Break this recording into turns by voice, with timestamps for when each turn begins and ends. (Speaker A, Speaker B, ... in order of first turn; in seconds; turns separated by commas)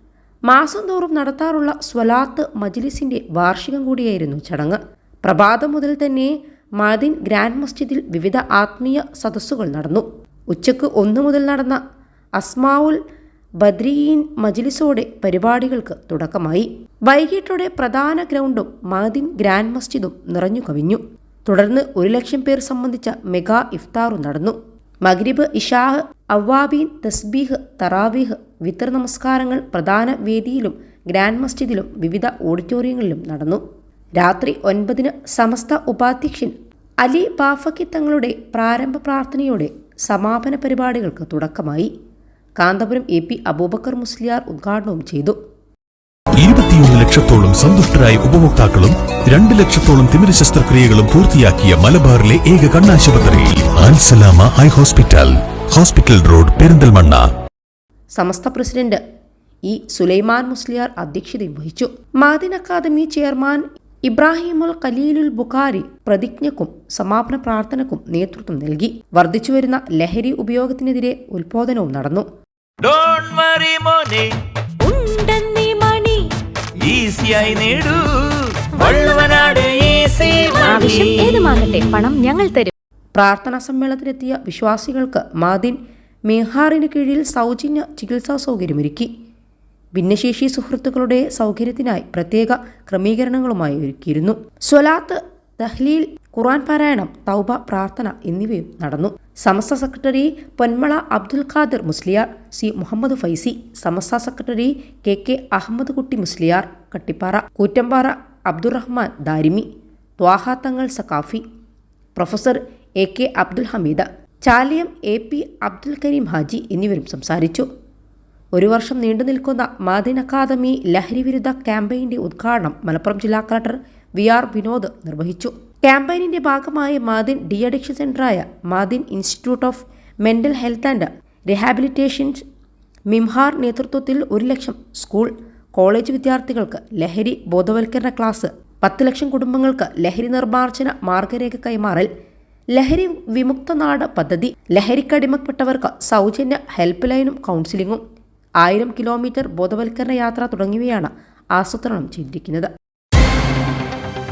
Speaker A: 0.5-11.8, Speaker A: 12.4-13.0, Speaker A: 13.6-33.6, Speaker A: 34.2-41.9, Speaker A: 42.6-45.4, Speaker B: 46.4-57.3, Speaker A: 58.1-59.0, Speaker A: 59.7-72.3, Speaker C: 72.8-74.3, Speaker D: 74.8-76.3, Speaker C: 76.8-81.4, Speaker D: 78.8-79.5, Speaker D: 80.6-82.7, Speaker A: 83.1-89.1, Speaker A: 89.9-109.7, Speaker A: 110.2-111.4, Speaker A: 112.1-117.7, Speaker A: 118.5-132.4, Speaker A: 133.1-142.1, Speaker A: 142.7-148.0, Speaker A: 148.6-152.7